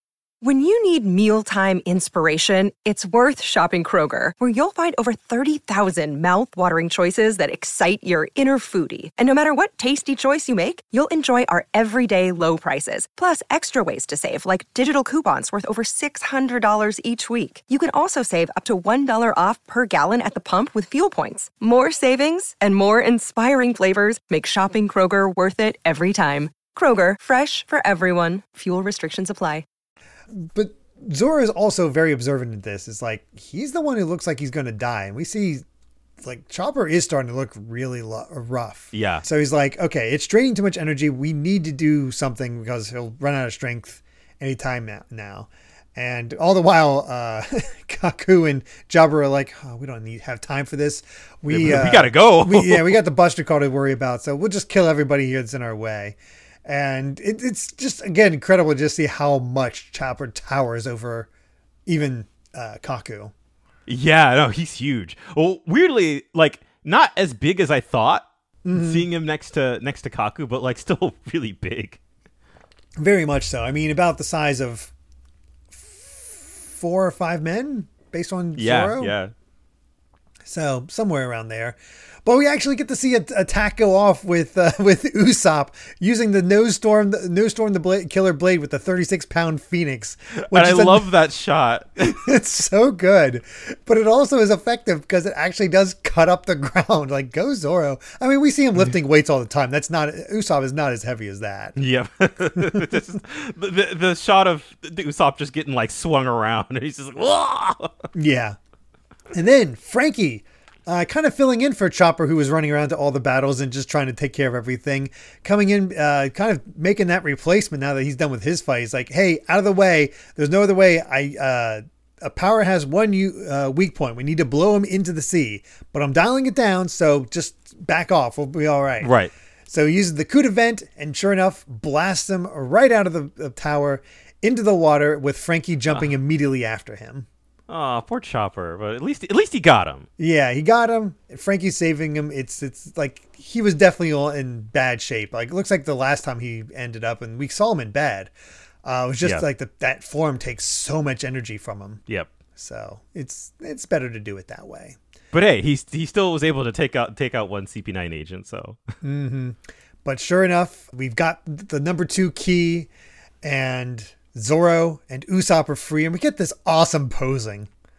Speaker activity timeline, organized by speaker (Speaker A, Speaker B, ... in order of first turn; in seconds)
Speaker A: 0.4-29.6
Speaker B: 30.4-35.6, 36.2-61.3, 61.9-63.3, 68.6-69.1, 73.0-74.9, 75.7-79.2, 80.5-91.1, 92.0-101.8, 102.5-102.8, 108.1-108.6, 109.3-129.1, 129.7-137.3, 140.2-148.3, 148.8-152.0, 152.6-155.0, 159.0-162.9, 163.4-167.7
Speaker C: 38.9-39.3, 51.5-53.0, 63.9-72.0, 78.6-79.3, 90.5-92.3, 101.8-108.0, 129.0-129.3, 137.7-140.1, 155.3-158.9